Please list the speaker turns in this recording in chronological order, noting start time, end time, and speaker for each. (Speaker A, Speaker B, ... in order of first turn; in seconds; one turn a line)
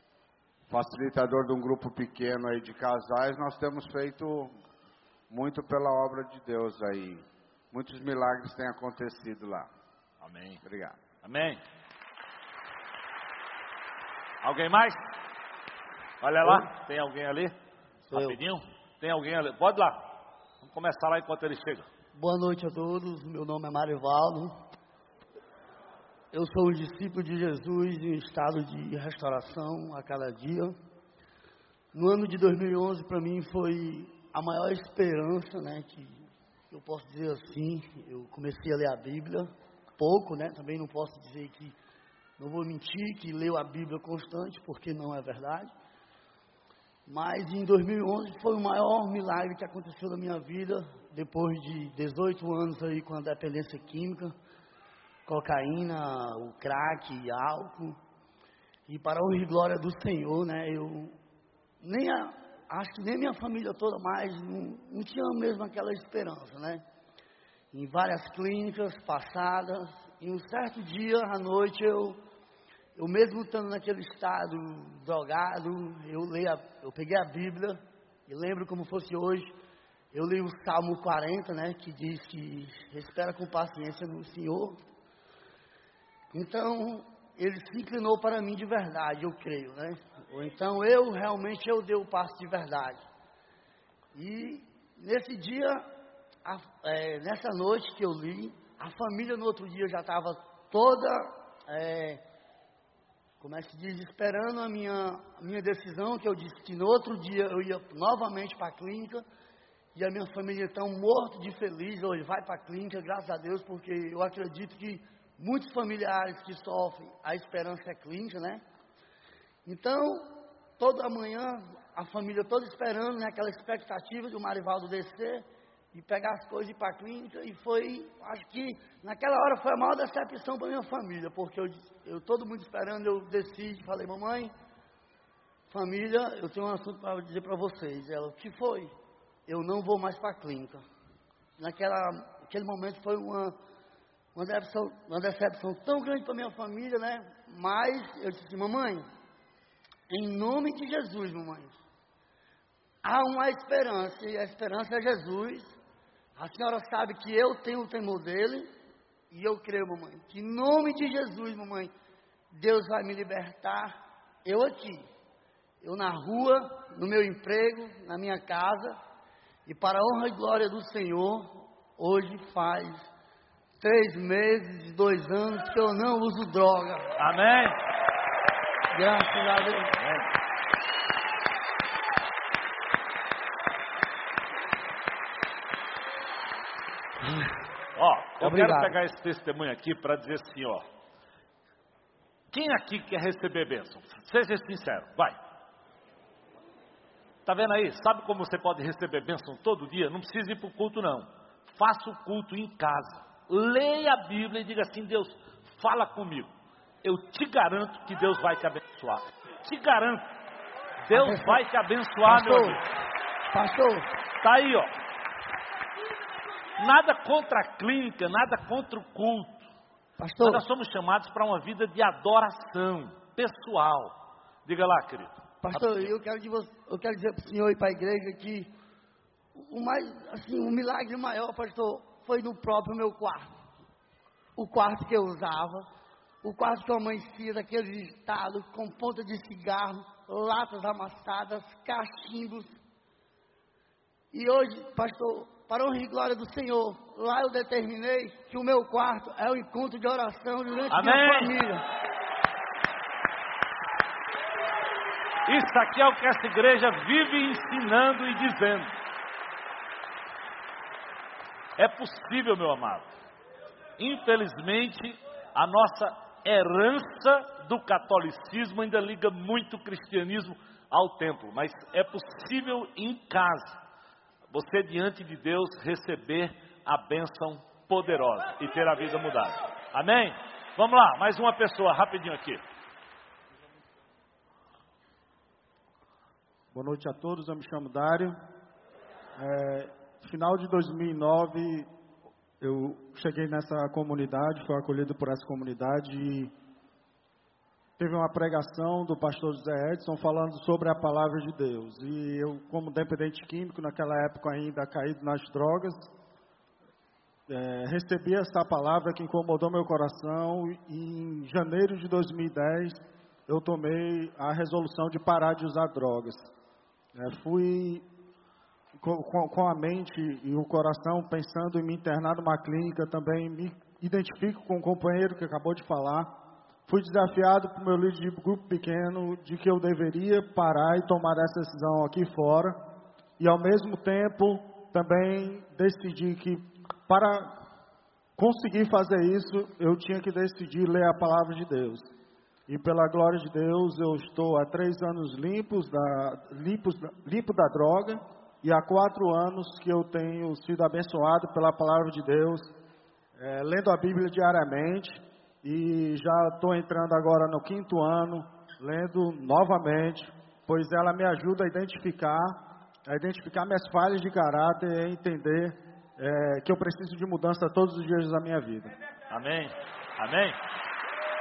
Speaker A: 0.7-4.5
Speaker A: 5.3-9.7
Speaker B: 10.2-10.6
Speaker A: 10.6-11.0
Speaker B: 11.2-11.6
Speaker B: 14.4-15.2
Speaker B: 16.2-17.6
Speaker C: 16.4-16.7
Speaker C: 18.1-18.4
Speaker B: 18.1-20.0
Speaker B: 20.6-21.9
Speaker C: 22.2-24.6
Speaker C: 26.3-30.8
Speaker C: 31.9-41.8
Speaker C: 42.4-45.7
Speaker C: 47.1-54.4
Speaker C: 55.3-58.0
Speaker C: 58.9-61.2
Speaker C: 61.8-66.8
Speaker C: 67.7-72.2
Speaker C: 73.0-79.5
Speaker C: 80.1-84.8
Speaker C: 86.3-93.0
Speaker C: 94.2-95.9
Speaker C: 96.5-102.2
Speaker C: 103.4-109.2
Speaker C: 110.0-118.6
Speaker C: 119.7-134.5
Speaker C: 135.7-138.9
Speaker C: 139.5-140.8
Speaker C: 141.6-143.6
Speaker C: 144.3-149.1
Speaker C: 150.1-151.8
Speaker C: 153.0-155.8
Speaker C: 156.4-158.7
Speaker C: 159.3-161.9
Speaker C: 162.5-165.1
Speaker C: 165.8-169.0
Speaker C: 169.7-173.1
Speaker C: 173.8-177.1
Speaker B: 177.2-177.8
Speaker C: 178.9-179.9
Speaker B: 180.0-180.2
Speaker B: 187.9-190.8
Speaker C: 188.4-188.9
Speaker B: 192.5-195.4
Speaker B: 197.5-206.5
Speaker B: 207.0-210.2
Speaker B: 211.1-212.8
Speaker C: 211.1-211.6
Speaker C: 212.2-212.8
Speaker C: 213.5-214.1
Speaker B: 214.4-214.9
Speaker B: 216.8-219.7
Speaker C: 220.2-220.6
Speaker B: 220.4-226.1
Speaker C: 225.6-228.7
Speaker C: 229.6-233.5
Speaker C: 234.6-235.9
Speaker C: 236.4-242.8
Speaker C: 244.3-251.8
Speaker B: 250.9-251.6
Speaker B: 255.5-258.9
Speaker B: 261.8-263.1
Speaker B: 264.0-273.8
Speaker B: 274.5-282.6
Speaker D: 286.7-288.4
Speaker D: 289.4-291.9
Speaker D: 292.6-296.5
Speaker D: 298.0-306.1
Speaker D: 307.5-316.5
Speaker D: 317.2-318.0
Speaker D: 319.0-326.3
Speaker D: 326.9-332.8
Speaker D: 333.4-337.6
Speaker D: 338.4-342.1
Speaker D: 342.7-352.7
Speaker D: 353.4-368.9
Speaker B: 369.3-370.6